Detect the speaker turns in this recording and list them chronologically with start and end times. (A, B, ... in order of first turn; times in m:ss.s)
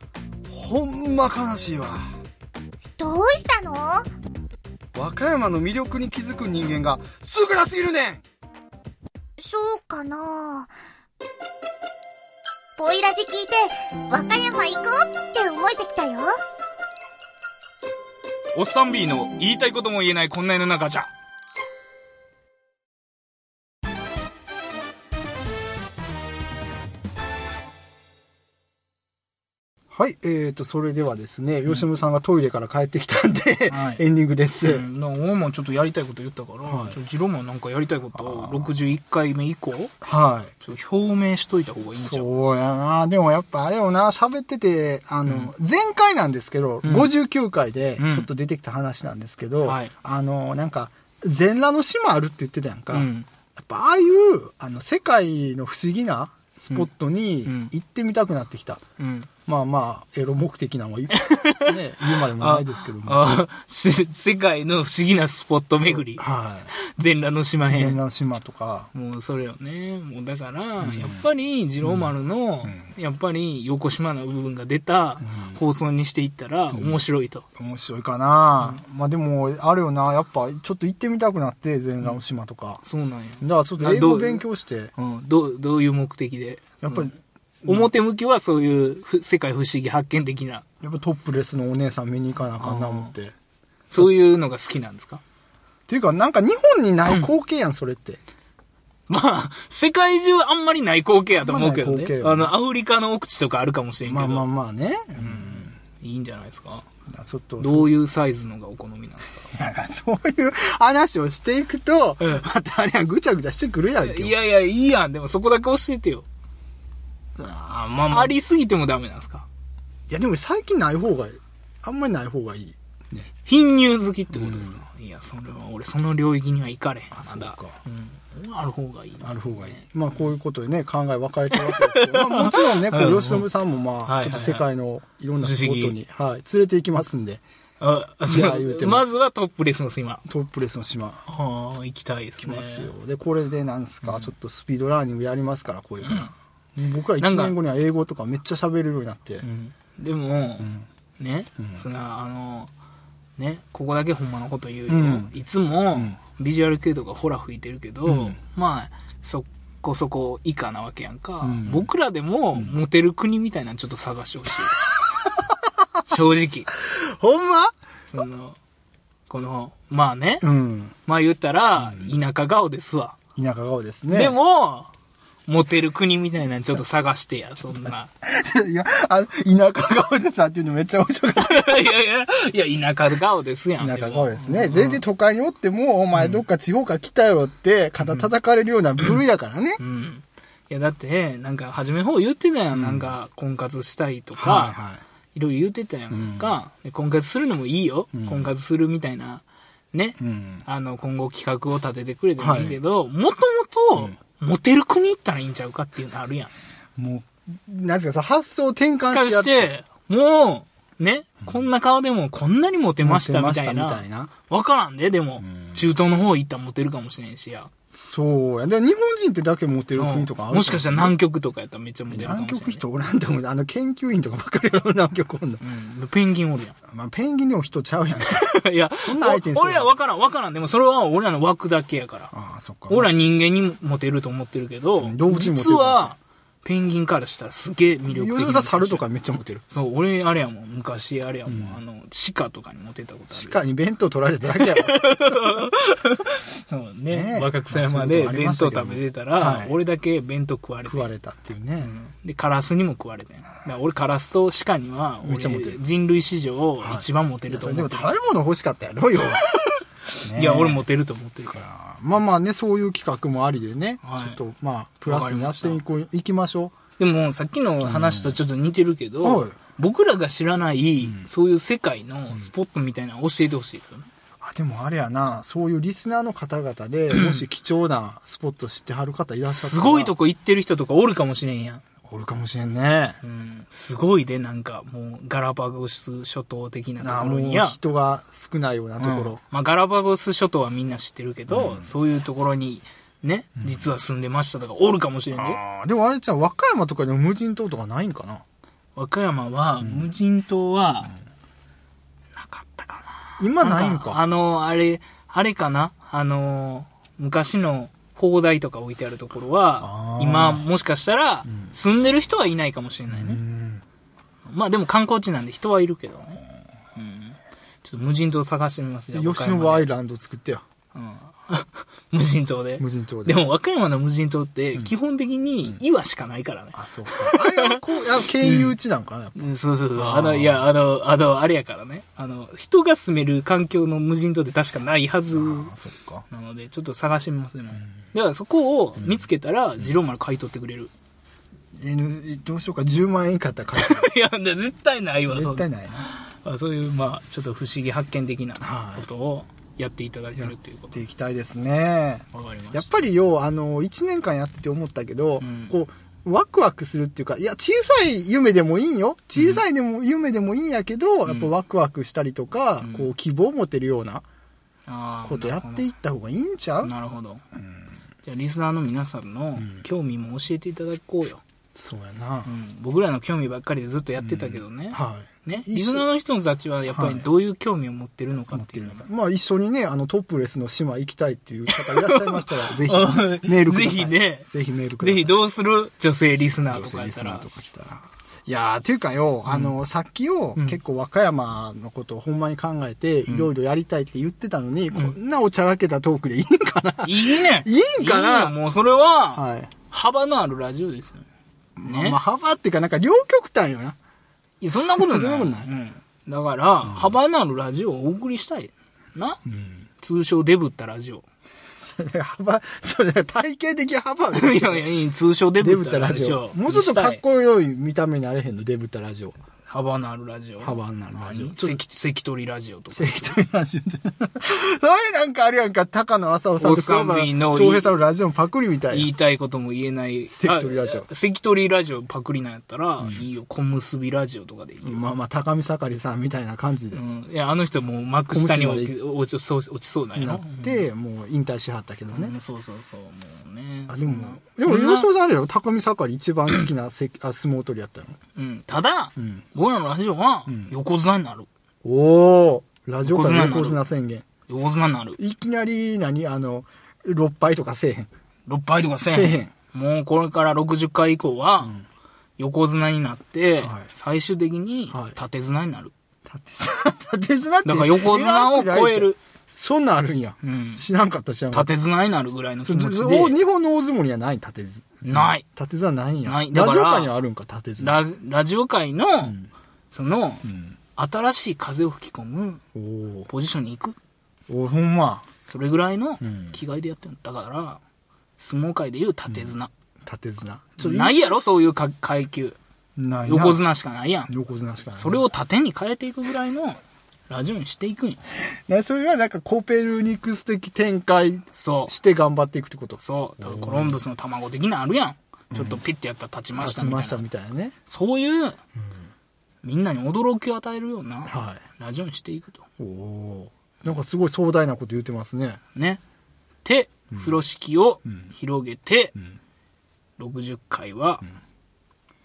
0:00.5-0:02.2 A
0:03.0-0:04.1 B
0:04.9-0:08.2 A
0:09.4-0:10.7 B
0:12.8-0:16.4 B
0:18.6-0:21.1 C
0:29.9-0:34.9 A
0:33.7-0:34.0 C
0:34.6-0:39.9 C
0:36.6-0:37.0 A
0:38.1-0:38.7 A
0:40.0-0:40.5 A
0:40.6-0:42.3 C
0:41.9-0:58.8 A
0:45.3-0:45.5 C
0:46.8-0:47.1 C
0:48.0-0:48.3 C
0:49.6-0:49.9 C
0:52.9-0:53.3 C
0:57.5-0:57.7 C
0:59.0-0:59.3 C
0:59.5-1:03.4 A
1:01.2-1:08.0 C
1:05.9-1:06.7 A
1:07.7-1:08.9 A
1:08.9-1:17.4 C
1:10.8-1:11.2 A
1:11.8-1:12.1 A
1:12.6-1:12.9 A
1:15.2-1:15.6 A
1:16.7-1:17.0 A
1:17.6-1:22.8 A
1:22.8-1:24.4 C
1:23.4-1:24.9 A
1:25.0-1:27.1 C
1:26.8-1:27.9 A
1:27.6-1:30.6 C
1:30.8-1:33.3 A
1:32.6-1:33.1 C
1:33.9-1:35.2 C
1:35.9-1:38.2 A
1:37.1-1:37.3 C
1:39.1-1:44.5 C
1:41.3-1:42.5 A
1:44.0-1:45.7 A
1:45.2-1:46.9 C
1:47.1-1:47.9 A
1:47.6-1:49.5 C
1:49.4-1:54.4 A
1:54.0-1:56.3 C
1:57.4-1:58.4 A
1:58.1-1:59.5 C
2:00.1-2:03.3 A
2:03.4-2:10.3 C
2:04.3-2:04.8 A
2:07.1-2:07.8 A
2:09.2-2:17.4 A
2:11.5-2:13.5 C
2:14.1-2:14.7 C
2:15.4-2:16.0 C
2:17.8-2:20.2 C
2:18.3-2:19.1 A
2:20.3-2:21.2 A
2:21.3-2:22.9 C
2:22.4-2:29.5 A
2:24.0-2:24.3 C
2:26.0-2:26.3 C
2:27.2-2:27.6 C
2:29.4-2:32.7 C
2:30.6-2:30.9 A
2:31.6-2:31.8 A
2:33.4-2:44.9 C
2:34.9-2:35.3 A
2:38.0-2:38.4 A
2:41.4-2:41.9 A
2:46.1-2:46.7 C
2:46.9-2:47.7 A
2:48.1-2:48.6 C
2:49.3-2:50.5 C
2:50.4-2:51.0 A
2:51.1-2:53.2 C
2:51.8-2:52.1 A
2:53.4-2:54.4 A
2:54.1-2:54.9 C
2:55.5-2:58.1 C
2:57.9-3:02.0 A
3:01.4-3:05.0 C
3:03.8-3:09.8 A
3:06.1-3:06.4 C
3:08.0-3:08.3 C
3:09.8-3:14.8 C
3:12.7-3:13.1 A
3:14.4-3:15.0 A
3:15.3-3:26.5 C
3:16.1-3:16.5 A
3:18.1-3:18.5 A
3:20.2-3:20.7 A
3:22.4-3:22.8 A
3:27.0-3:29.7 A
3:29.1-3:37.7 C
3:33.0-3:34.3 A
3:35.6-3:35.8 A
3:37.9-3:41.2 A
3:39.9-3:42.8 C
3:42.1-3:45.6 A
3:45.6-3:46.8 C
3:46.9-3:48.5 A
3:48.3-3:52.3 C
3:49.0-3:49.9 A
3:52.3-3:53.1 A
3:52.9-3:59.0 C
3:55.0-3:56.1 A
3:58.1-3:59.6 A
3:59.7-4:03.6 C
4:01.5-4:01.8 A
4:03.3-4:05.2 A
4:04.6-4:11.1 C
4:07.1-4:09.8 A
4:10.9-4:12.0 A
4:11.8-4:18.2 C
4:15.2-4:15.8 A
4:16.8-4:19.5 A
4:20.2-4:20.8 A
4:20.3-4:21.7 C
4:21.5-4:26.8 A
4:24.0-4:24.4 C
4:25.0-4:25.8 C
4:27.0-4:34.1 C
4:27.8-4:28.4 A
4:29.2-4:29.6 A
4:31.0-4:31.3 A
4:34.4-4:40.1 A
4:37.1-4:37.5 C
4:39.5-4:41.8 C
4:42.1-4:43.2 A
4:43.2-4:47.8 C
4:47.0-4:49.4 A
4:49.0-4:55.6 C
4:51.5-4:51.9 A
4:53.6-4:53.9 A
4:55.3-4:58.4 A
4:59.0-5:01.2 C
4:59.8-5:00.1 A
5:02.4-5:13.4 C
5:03.4-5:04.2 A
5:09.8-5:10.7 A
5:13.1-5:13.8 A
5:14.4-5:19.9 C
5:19.1-5:20.6 A
5:20.9-5:27.8 C
5:22.8-5:23.5 A
5:26.7-5:30.7 A
5:28.4-5:28.8 C
5:29.4-5:35.7 C
5:35.3-5:36.3 A
5:36.3-5:40.9 C
5:39.0-5:39.3 A
5:41.8-5:44.1 A
5:43.8-5:51.0 C
5:45.3-5:46.0 A
5:48.6-5:49.1 A
5:50.3-6:04.2 A
5:52.3-5:52.9 C
5:55.4-5:55.7 C
5:59.4-5:59.6 C
6:01.2-6:01.5 C
6:02.8-6:03.1 C
6:04.9-6:05.9 C
6:05.3-6:06.9 A
6:06.8-6:07.4 C
6:08.2-6:11.4 C
6:09.6-6:09.8 A
6:11.8-6:12.5 A
6:12.5-6:19.0 C
6:14.2-6:16.1 A
6:16.9-6:17.3 A
6:18.5-6:25.4 A
6:21.7-6:24.5 C
6:25.0-6:27.5 C
6:26.7-6:38.6 A
6:29.5-6:29.8 C
6:37.0-6:41.3 C
6:39.3-6:39.7 A
6:41.8-6:44.0 A
6:41.8-6:42.2 C
6:44.6-6:49.4 C
6:45.0-6:45.7 A
6:46.8-6:47.2 A
6:49.5-6:49.9 A
6:50.0-6:51.2 C
6:51.8-6:54.9 A
6:54.3-6:57.2 C
6:55.6-6:59.4 A
6:59.7-7:03.4 C
7:00.6-7:01.8 A
7:02.9-7:09.1 A
7:06.6-7:08.0 C
7:08.9-7:15.0 C
7:10.3-7:11.1 A
7:14.8-7:17.0 A
7:16.9-7:20.8 C
7:18.3-7:18.9 A
7:20.2-7:22.3 A
7:22.1-7:25.1 C
7:23.9-7:28.2 A
7:28.4-7:31.5 C
7:29.2-7:29.4 A
7:30.5-7:30.7 A
7:31.8-7:34.2 A
7:33.0-7:33.8 C
7:34.5-7:35.2 C
7:35.2-7:38.1 A
7:38.5-7:41.8 C
7:39.1-7:39.5 A
7:42.4-7:45.9 C
7:43.6-7:43.9 A
7:44.9-7:45.2 A
7:46.2-7:51.7 A
7:47.6-7:49.2 C
7:50.4-7:50.8 C
7:51.5-7:53.4 C
7:52.6-7:58.0 A
7:55.0-7:55.4 C
7:56.2-7:57.1 C
7:57.8-7:59.4 C
7:59.2-7:59.5 A
7:59.9-8:02.6 C
8:00.4-8:00.8 A
8:02.8-8:03.3 A
8:03.3-8:04.0 C
8:04.5-8:05.3 A
8:05.5-8:07.8 C
8:06.2-8:06.6 A
8:08.4-8:09.7 C
8:09.3-8:11.4 A
8:10.8-8:12.6 C
8:13.0-8:13.6 A
8:13.2-8:14.3 C
8:14.3-8:15.2 A
8:15.0-8:18.2 C
8:18.5-8:24.0 A
8:21.5-8:21.9 C
8:23.0-8:27.2 C
8:25.5-8:25.8 A
8:26.6-8:27.8 A
8:27.9-8:28.6 C
8:29.6-8:32.6 C
8:31.3-8:31.6 A
8:32.8-8:35.6 A
8:35.8-8:36.0 C
8:36.6-8:39.2 C
8:37.1-8:37.4 A
8:40.2-8:41.3 C